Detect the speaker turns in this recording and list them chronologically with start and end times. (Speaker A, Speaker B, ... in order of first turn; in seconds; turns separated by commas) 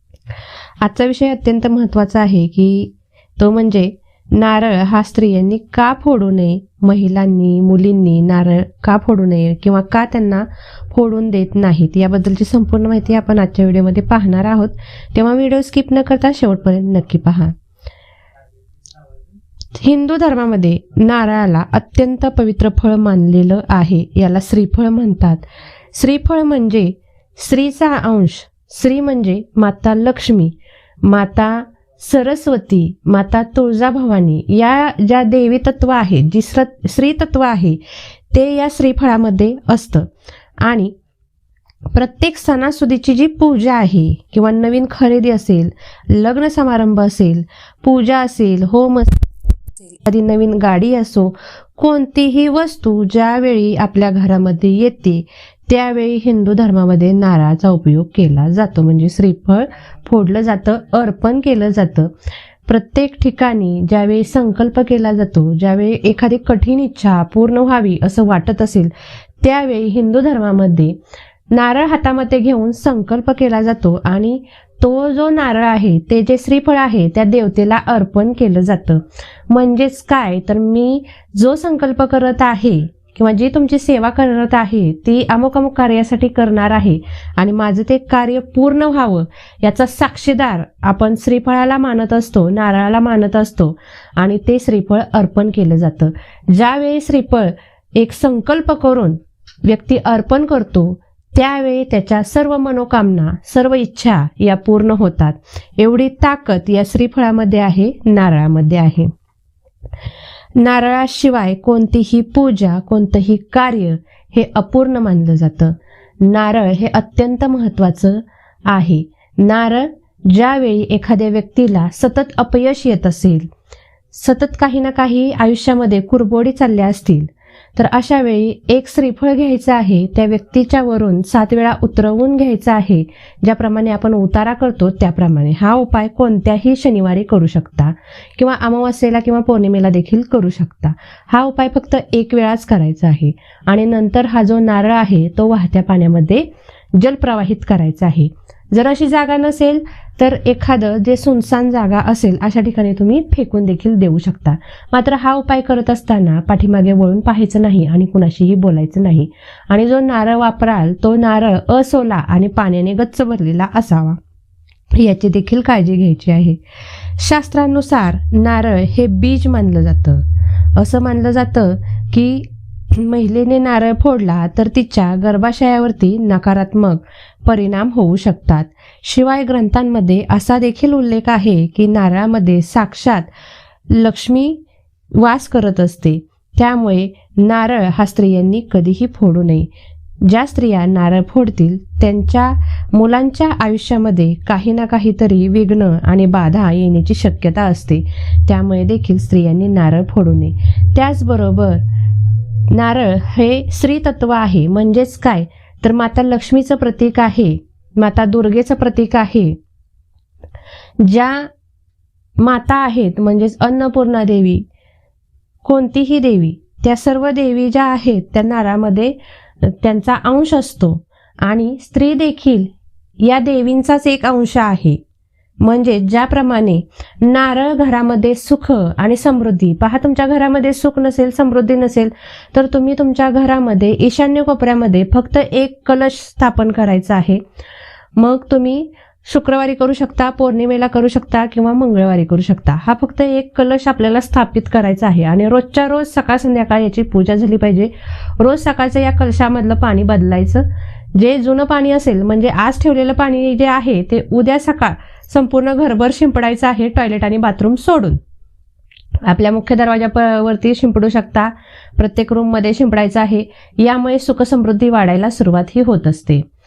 Speaker A: 0.8-17.5, Speaker A: 19.7-37.8, Speaker A: 38.3-40.1, Speaker A: 40.6-40.9, Speaker A: 41.9-49.2, Speaker A: 49.9-62.1, Speaker A: 62.7-71.0, Speaker A: 71.5-109.1, Speaker A: 110.6-123.5, Speaker A: 124.1-164.2, Speaker A: 164.9-166.6, Speaker A: 167.2-170.2, Speaker A: 170.8-183.3, Speaker A: 183.9-184.6, Speaker A: 185.1-189.7, Speaker A: 190.2-201.8, Speaker A: 202.7-209.6, Speaker A: 211.0-211.5, Speaker A: 212.4-214.7, Speaker A: 215.6-225.0, Speaker A: 225.6-237.4, Speaker A: 238.2-258.2, Speaker A: 259.2-266.4